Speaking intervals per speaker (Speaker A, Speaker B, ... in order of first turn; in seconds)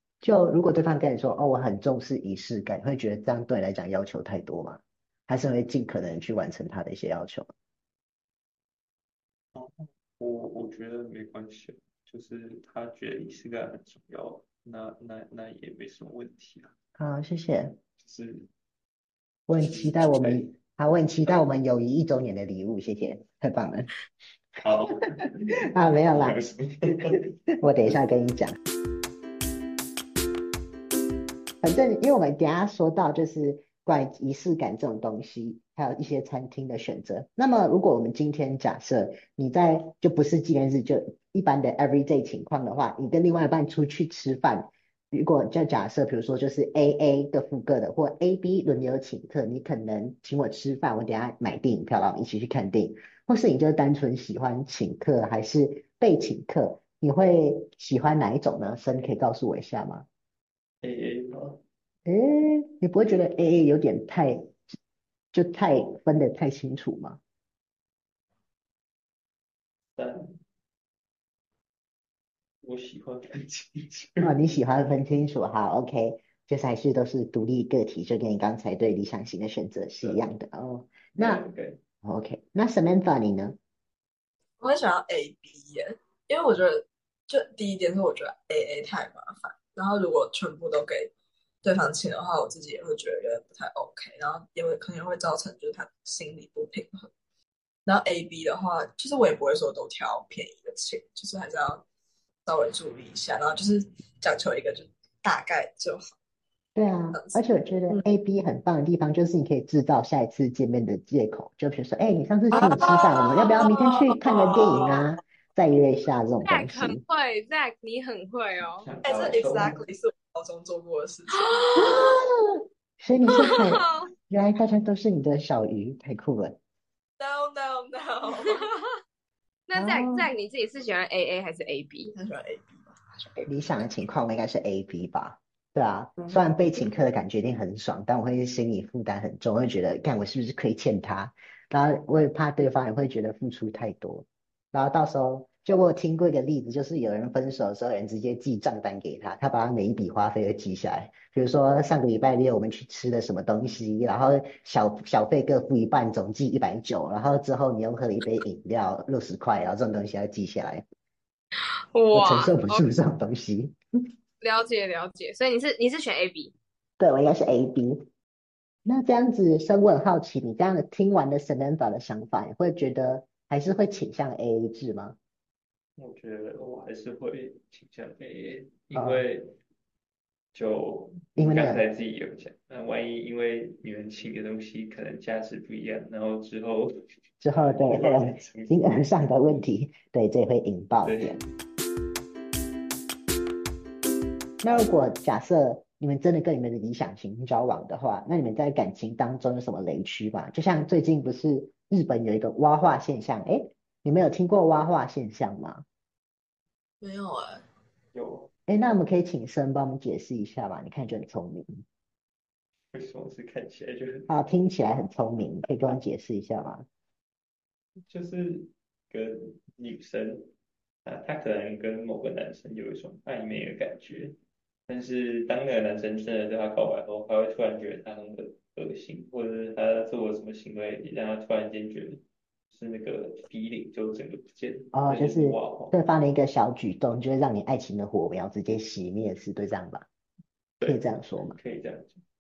Speaker A: 0.2-7.5, 17.0-17.8, 19.5-23.9, 25.6-26.4, 27.6-28.6, 31.6-60.1, 62.1-64.6, 65.3-67.2, 74.2-81.4, 82.0-83.6, 106.8-117.0, 121.8-126.6, 129.8-130.3, 133.5-160.8, 162.1-163.8, 167.0-168.1, 168.8-175.2, 178.9-179.2, 181.4-181.8, 187.4-191.4, 194.6-205.8, 208.7-211.8, 214.3-216.9, 234.9-240.1, 240.8-241.6
Speaker B: 9.6-16.7, 18.0-18.5, 19.6-20.5, 24.6-27.3, 60.8-61.6, 69.9-70.4, 72.6-74.3, 81.2-81.8, 118.8-119.8, 176.0-179.6, 180.5-188.8, 191.0-191.4, 208.1-208.5, 212.9-214.3, 218.1-220.5, 221.1-224.4, 224.9-236.0, 240.8-242.2
Speaker C: 84.6-91.1, 91.6-97.1, 97.9-101.8, 102.5-106.1, 107.1-108.0, 112.5-115.0, 119.0-121.7, 127.2-128.7, 132.1-133.5, 207.0-207.6
Speaker D: 116.5-118.9, 121.4-122.1, 123.3-124.1, 129.7-132.1, 161.9-162.8, 164.4-166.5